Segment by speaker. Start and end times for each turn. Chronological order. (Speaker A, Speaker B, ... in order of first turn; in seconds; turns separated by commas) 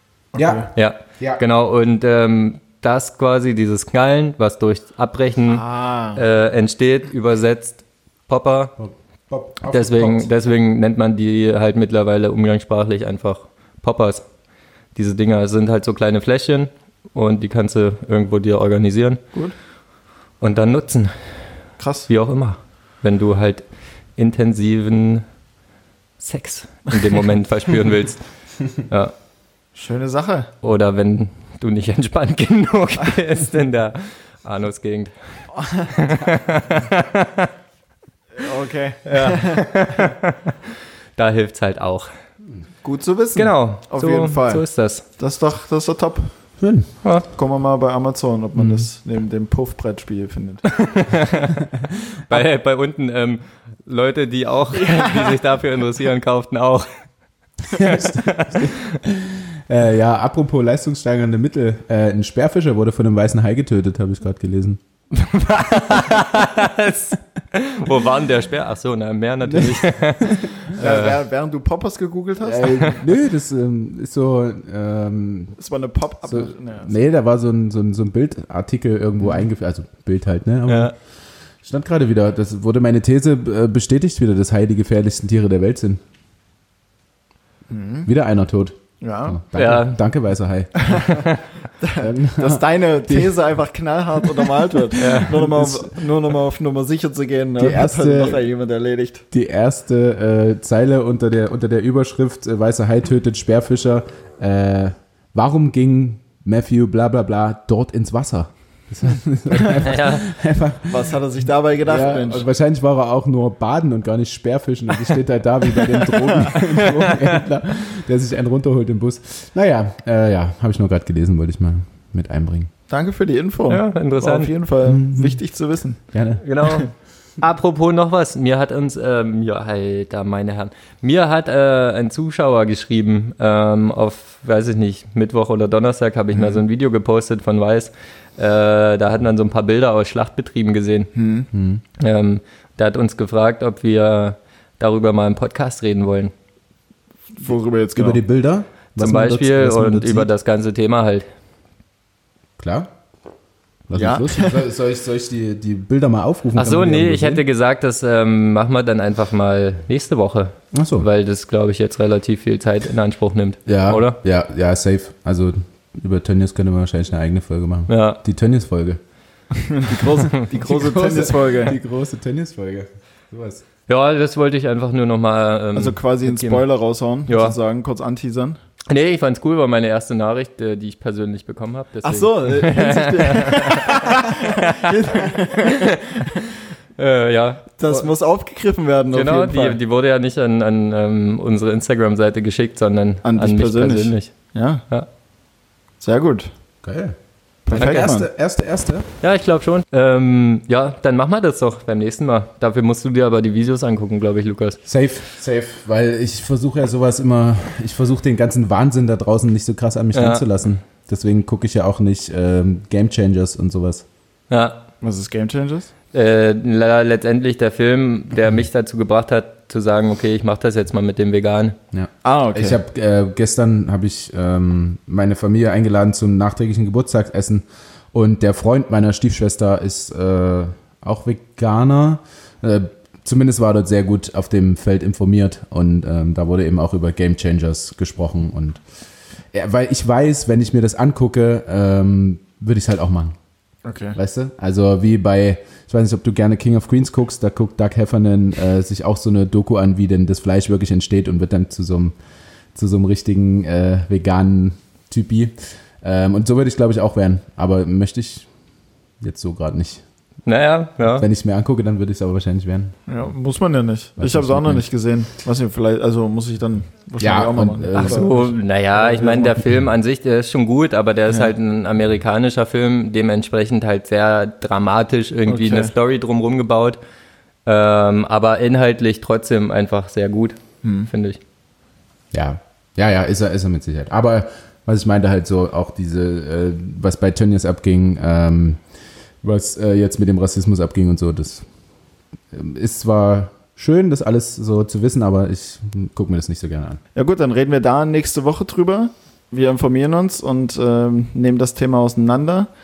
Speaker A: 0.3-0.7, Speaker B: 0.3-1.4, Speaker C: 0.7-8.7, Speaker A: 5.5-6.2, Speaker B: 8.8-10.3, Speaker C: 9.6-14.2, Speaker C: 14.9-19.2, Speaker C: 20.4-21.1, Speaker A: 21.8-22.1, Speaker C: 22.1-23.6, Speaker C: 24.2-25.2, Speaker C: 26.2-29.1, Speaker A: 29.7-30.5, Speaker C: 30.6-35.1, Speaker A: 35.5-35.9, Speaker C: 35.8-37.5, Speaker A: 38.3-40.1, Speaker C: 39.0-40.5, Speaker C: 41.1-42.1, Speaker A: 42.8-44.6, Speaker C: 43.4-45.0, Speaker A: 45.2-46.3, Speaker B: 46.6-46.9, Speaker A: 47.3-50.6, Speaker B: 48.5-48.9, Speaker C: 50.7-51.7, Speaker C: 52.3-56.9, Speaker A: 54.8-55.4, Speaker B: 57.7-64.8, Speaker C: 57.7-58.8, Speaker C: 65.1-71.2, Speaker B: 69.4-70.5, Speaker A: 70.8-73.0, Speaker B: 72.4-75.5, Speaker A: 75.6-76.9, Speaker B: 76.3-80.9, Speaker C: 80.7-80.9, Speaker B: 81.6-86.0, Speaker A: 87.7-88.1, Speaker B: 88.0-91.2, Speaker A: 89.0-89.4, Speaker C: 89.5-90.0, Speaker A: 90.8-91.3, Speaker C: 91.1-91.4, Speaker A: 91.8-99.2, Speaker B: 92.0-93.4, Speaker C: 95.0-95.4, Speaker B: 95.1-95.9, Speaker B: 97.6-98.4, Speaker B: 99.3-111.1, Speaker C: 109.7-110.2, Speaker A: 110.9-112.5, Speaker B: 111.8-122.7, Speaker C: 116.5-117.3, Speaker A: 122.9-126.0, Speaker C: 123.7-124.5, Speaker B: 124.8-125.4, Speaker B: 126.1-126.4, Speaker C: 126.4-141.1, Speaker A: 141.1-141.5, Speaker B: 141.5-141.8, Speaker C: 142.0-146.3, Speaker A: 147.4-148.2, Speaker B: 147.9-150.3, Speaker C: 149.0-151.3, Speaker B: 152.6-152.9, Speaker B: 153.9-157.4, Speaker A: 153.9-154.6, Speaker C: 156.6-164.2, Speaker B: 160.7-161.1, Speaker B: 163.7-169.0, Speaker C: 167.9-168.2, Speaker A: 169.5-171.8, Speaker B: 170.5-173.6, Speaker C: 173.9-176.6, Speaker A: 175.7-178.6, Speaker C: 177.3-177.6, Speaker C: 178.9-186.2, Speaker A: 182.0-186.4, Speaker C: 187.0-188.1, Speaker A: 187.8-189.8, Speaker C: 189.1-194.4, Speaker A: 193.2-194.8, Speaker A: 196.0-196.5, Speaker B: 196.8-197.2, Speaker A: 197.7-198.3, Speaker B: 197.7-199.1, Speaker C: 197.7-198.1, Speaker C: 199.2-204.8, Speaker B: 204.9-214.0, Speaker C: 210.1-210.4, Speaker C: 214.5-214.8, Speaker A: 215.0-215.9, Speaker C: 216.1-221.8, Speaker B: 221.9-238.8, Speaker A: 222.2-222.8, Speaker B: 239.5-243.4, Speaker A: 243.8-244.2, Speaker B: 244.1-252.1, Speaker B: 252.7-258.5, Speaker B: 259.2-260.0, Speaker C: 260.4-261.2, Speaker B: 261.2-262.9, Speaker A: 263.1-269.6, Speaker B: 264.2-264.8, Speaker B: 267.2-268.3, Speaker C: 267.9-277.0, Speaker A: 275.5-275.9, Speaker C: 277.6-281.4, Speaker A: 280.8-281.1, Speaker B: 282.3-288.8, Speaker B: 289.4-291.6, Speaker B: 292.5-297.0, Speaker A: 297.1-302.7